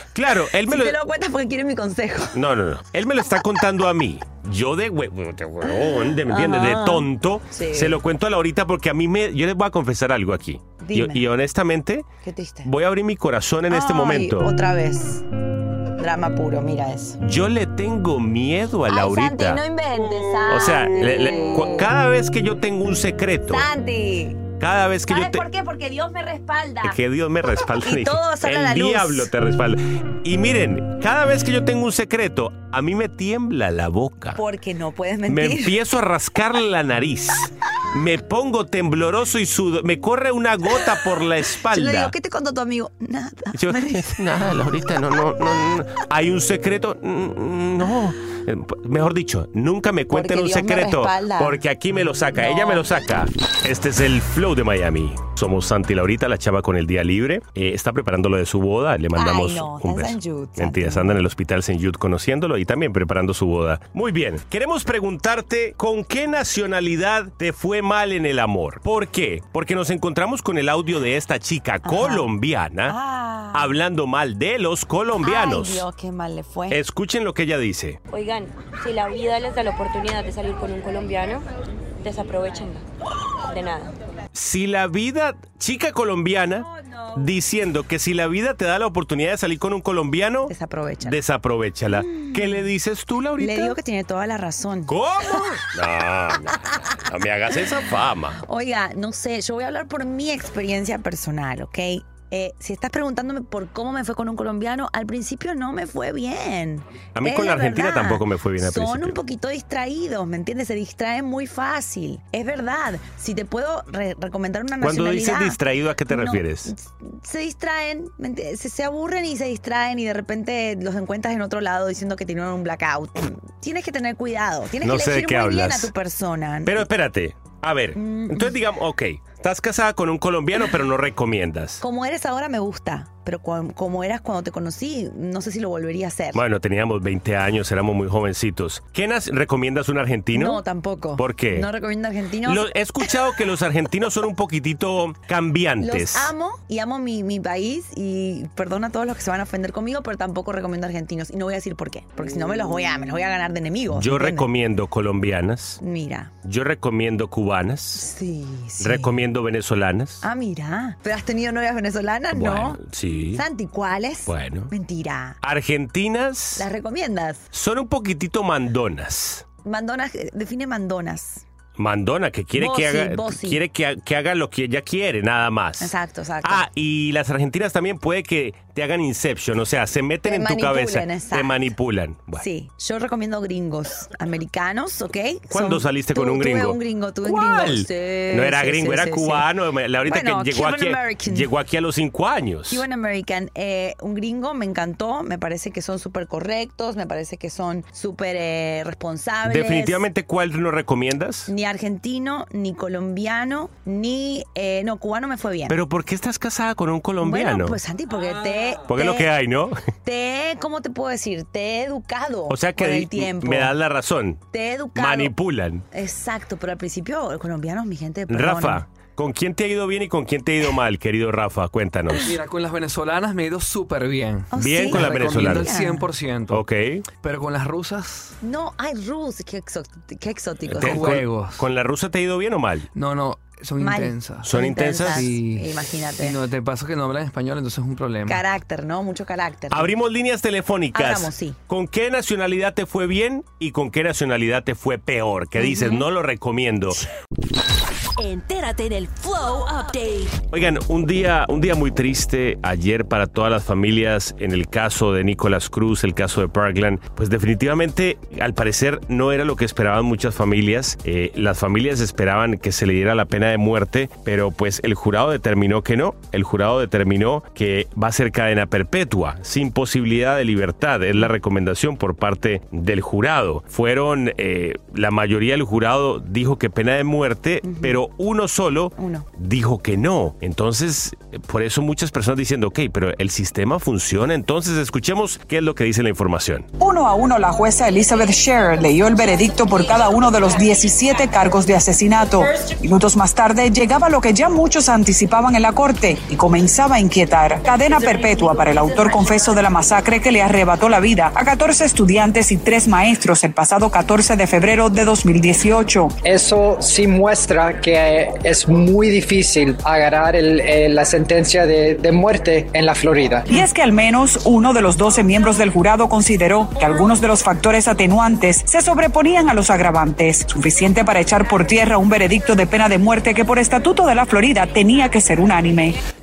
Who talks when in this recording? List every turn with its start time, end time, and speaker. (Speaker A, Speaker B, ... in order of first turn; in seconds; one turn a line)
Speaker A: 0.1-1.0
Speaker B: 0.7-2.4
Speaker A: 2.3-12.1
Speaker B: 5.6-8.0
Speaker B: 10.8-11.2
Speaker B: 12.2-12.7
Speaker A: 12.6-14.5
Speaker B: 13.7-15.2
Speaker B: 16.0-17.2
Speaker A: 17.2-19.6
Speaker B: 18.9-21.9
Speaker A: 20.5-23.7
Speaker B: 23.5-24.5
Speaker A: 24.6-25.4
Speaker B: 25.1-27.0
Speaker A: 26.8-34.4
Speaker B: 27.8-29.3
Speaker B: 34.3-35.8
Speaker A: 35.3-42.1
Speaker B: 41.6-44.8
Speaker A: 43.5-73.0
Speaker B: 50.1-51.6
Speaker B: 52.3-52.9
Speaker B: 59.1-61.2
Speaker B: 71.8-72.3
Speaker B: 72.8-73.8
Speaker A: 73.5-75.9
Speaker B: 75.2-76.8
Speaker A: 76.7-78.0
Speaker C: 78.1-81.5
Speaker C: 82.0-82.8
Speaker C: 83.5-83.9
Speaker A: 84.3-90.5
Speaker B: 90.5-91.2
Speaker A: 91.0-93.8
Speaker B: 91.9-92.7
Speaker B: 93.4-95.5
Speaker A: 94.9-98.4
Speaker B: 98.4-126.9
Speaker A: 107.2-109.2
Speaker A: 114.8-116.7
Speaker A: 124.8-125.9
Speaker A: 126.7-131.8
Speaker B: 128.0-128.5
Speaker B: 131.8-136.4
Speaker A: 136.3-140.6
Speaker B: 140.3-143.1
Speaker A: 141.2-141.7
Speaker A: 142.4-146.3
Speaker B: 145.8-154.5
Speaker A: 153.9-155.8
Speaker B: 155.8-156.3
Speaker A: 156.4-158.1
Speaker B: 157.9-159.1
Speaker A: 158.8-160.2
Speaker B: 160.2-162.8
Speaker A: 162.3-163.4
Speaker B: 163.3-165.4
Speaker A: 164.3-164.7
Speaker A: 165.4-166.7
Speaker B: 166.6-167.5
Speaker A: 167.5-169.4
Speaker B: 169.6-171.4
Speaker A: 171.8-182.4
Speaker B: 172.6-173.6
Speaker B: 175.8-176.7
Speaker B: 180.2-181.7
Speaker B: 182.4-189.5
Speaker A: 185.5-192.8
Speaker B: 190.0-191.5
Speaker B: 192.7-200.0
Speaker A: 199.4-201.5
Speaker B: 201.5-205.8
Speaker A: 205.7-207.8
Speaker B: 207.2-209.3
Speaker A: 208.9-209.8
Speaker B: 210.0-213.7
Speaker A: 212.5-214.4
Speaker B: 214.5-215.3
Speaker A: 214.9-215.8
Speaker B: 215.9-218.8
Speaker A: 218.3-222.3
Speaker D: 222.2-228.3
Speaker B: 224.5-226.1
Speaker A: 224.5-225.7
Speaker A: 226.5-227.0
Speaker B: 228.4-231.2
Speaker A: 230.7-232.9
Speaker D: 230.8-231.6
Speaker D: 232.9-238.4
Speaker B: 233.8-236.4
Speaker A: 234.4-235.3
Speaker B: 238.2-239.9
Speaker A: 239.7-247.0
Speaker B: 240.9-241.6
Speaker B: 245.6-246.1
Speaker E: 248.3-250.4
Speaker A: 250.5-286.7
Speaker B: 277.6-278.0
Speaker B: 279.0-279.3
Speaker F: 286.8-306.1
Speaker G: 306.2-313.5
Speaker F: 313.5-326.0